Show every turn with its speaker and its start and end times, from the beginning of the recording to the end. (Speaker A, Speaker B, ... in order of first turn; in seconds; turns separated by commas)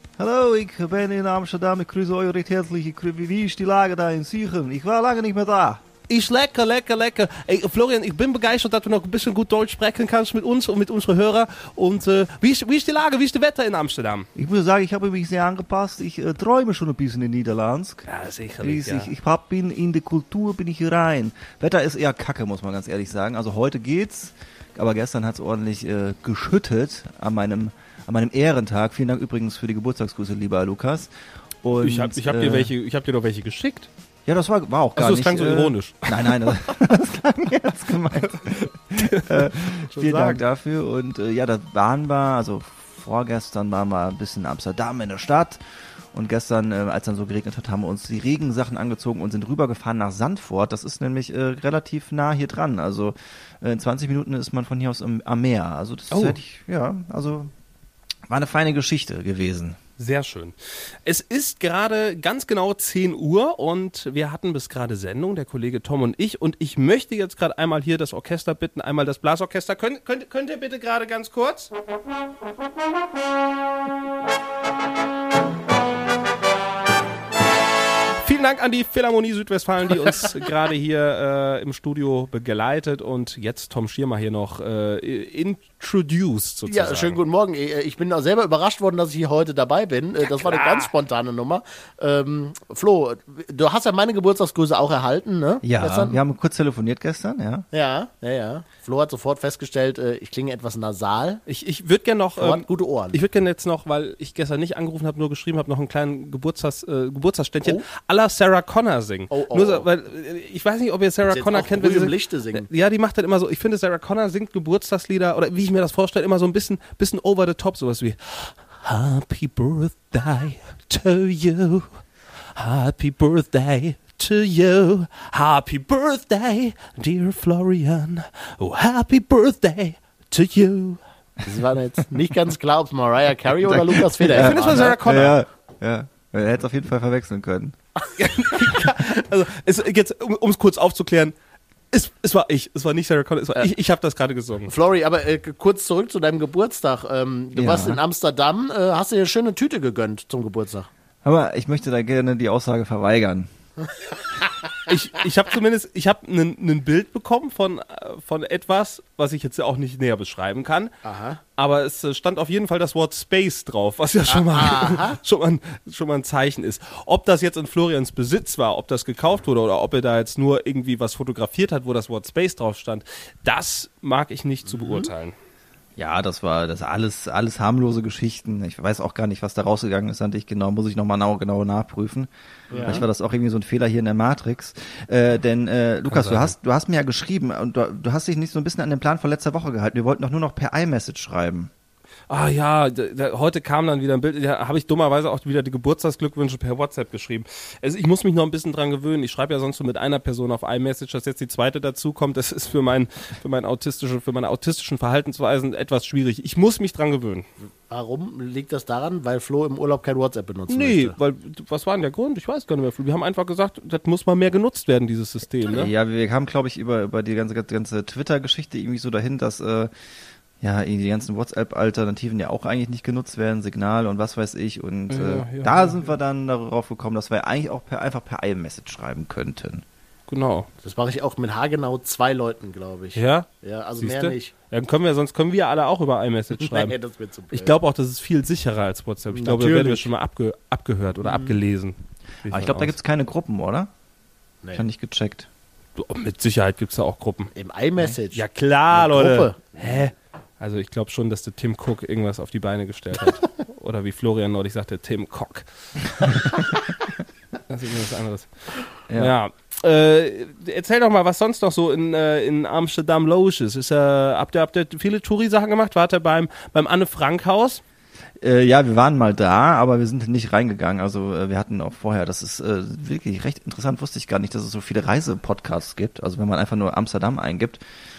Speaker A: 0.2-5.8, Speaker B: 6.1-14.3, Speaker A: 14.3-18.1, Speaker B: 18.1-19.1, Speaker A: 18.6-31.1, Speaker A: 31.6-32.7, Speaker B: 31.8-33.9, Speaker A: 34.2-45.6, Speaker B: 35.0-36.3, Speaker B: 38.5-40.4, Speaker A: 46.1-57.5, Speaker B: 56.1-56.4, Speaker A: 58.3-59.8, Speaker B: 60.0-71.7, Speaker B: 78.2-87.2, Speaker C: 86.7-96.2, Speaker B: 90.2-90.9, Speaker A: 95.6-97.7, Speaker C: 97.7-101.4, Speaker B: 101.5-122.0, Speaker C: 102.4-103.2, Speaker C: 109.3-109.8, Speaker C: 111.2-112.7, Speaker B: 122.5-131.0, Speaker C: 131.4-134.9, Speaker A: 133.7-137.8, Speaker B: 134.3-135.4, Speaker B: 138.2-141.3, Speaker B: 141.9-144.7, Speaker C: 144.7-150.9, Speaker A: 147.5-148.0, Speaker A: 151.2-153.5, Speaker B: 154.8-160.9, Speaker C: 161.0-161.4, Speaker B: 161.6-175.3, Speaker C: 164.3-165.2, Speaker C: 174.7-175.1, Speaker A: 176.0-182.3, Speaker C: 182.7-183.0, Speaker B: 182.7-183.0, Speaker A: 182.8-191.7, Speaker B: 186.1-186.5, Speaker B: 192.3-207.5, Speaker C: 207.9-211.2, Speaker B: 210.7-215.9, Speaker A: 215.7-219.9, Speaker A: 220.6-229.8, Speaker B: 225.1-226.1, Speaker B: 230.3-230.7, Speaker C: 230.8-234.5, Speaker B: 233.2-233.5, Speaker B: 234.0-236.9, Speaker C: 236.6-237.7, Speaker B: 237.5-242.9, Speaker C: 239.3-240.1, Speaker C: 241.2-241.6, Speaker A: 242.5-243.9, Speaker A: 244.7-245.5, Speaker B: 246.0-255.7, Speaker C: 247.5-250.0, Speaker B: 256.2-256.5, Speaker B: 257.7-267.8, Speaker A: 259.1-259.3, Speaker A: 268.4-277.8